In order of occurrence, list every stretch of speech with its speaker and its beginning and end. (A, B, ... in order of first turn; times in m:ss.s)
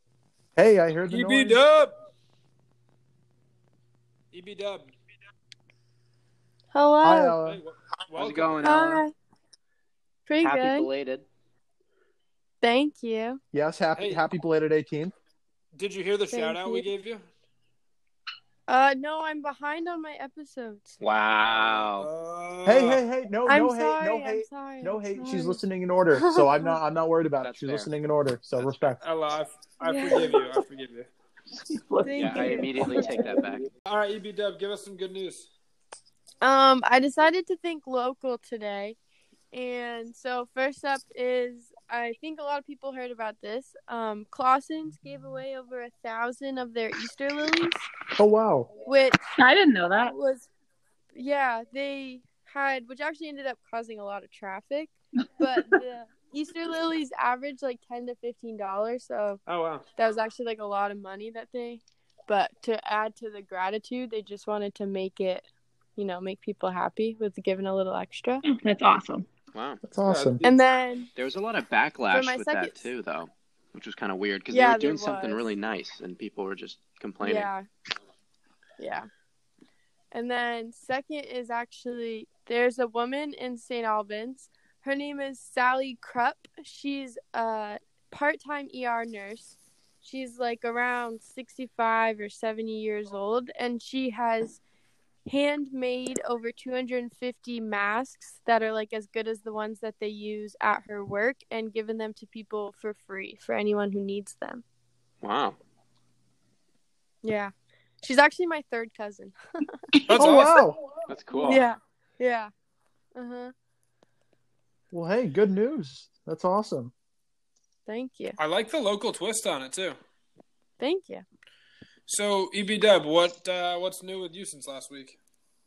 0:00.6-0:01.6 A
0:01.1-0:02.0 B
0:04.3-0:04.9 B
0:06.7-0:07.4 C
0:07.0-0:07.6 A
0:07.5-0:08.8 B
0:08.2-0:09.0 D
0:08.6-0:09.1 C
0:10.3-0:10.9 C
0:10.4-0:11.2 D
0:12.6-0:13.4 C
0:13.5-0:15.1 A
0:14.0-0:14.3 B
0:15.8-0:17.3 B
0:16.3-0:16.9 C
0:18.7-0:21.0 C
0:21.0-0:22.1 D
0:21.5-0:23.0 B
0:22.7-0:29.0 A
0:23.5-0:25.6 C
0:26.1-0:26.8 C
0:27.4-0:27.9 D
0:29.0-0:31.1 B
0:29.8-0:30.4 C
0:31.6-0:33.6 E
0:32.0-0:33.1 C
0:32.2-0:33.7 D
0:33.9-0:35.5 B
0:36.4-0:39.0 C
0:39.5-0:47.8 C
0:48.2-0:48.7 A
0:48.8-0:49.2 C
0:49.4-0:50.2 E
0:50.1-0:50.5 C
0:51.2-0:59.4 C
0:59.5-0:59.8 B
1:00.0-1:08.4 C
1:08.4-1:09.3 E
1:09.5-1:09.8 D
1:09.8-1:10.4 A
1:10.1-1:10.5 B
1:10.4-1:11.1 C
1:11.2-1:17.5 D
1:12.1-1:12.9 C
1:14.5-1:15.5 C
1:17.2-1:17.7 C
1:18.8-1:19.1 C
1:20.1-1:34.6 C
1:35.3-1:44.6 C
1:45.2-1:45.6 D
1:47.2-1:49.4 C
1:50.1-1:50.6 B
1:50.1-1:50.8 A
1:51.1-1:51.7 D
1:51.4-1:52.5 C
1:53.2-1:53.5 C
1:54.9-1:56.9 A
1:57.9-1:58.4 C
1:58.4-2:00.0 B
2:00.8-2:01.2 C
2:02.1-2:05.2 B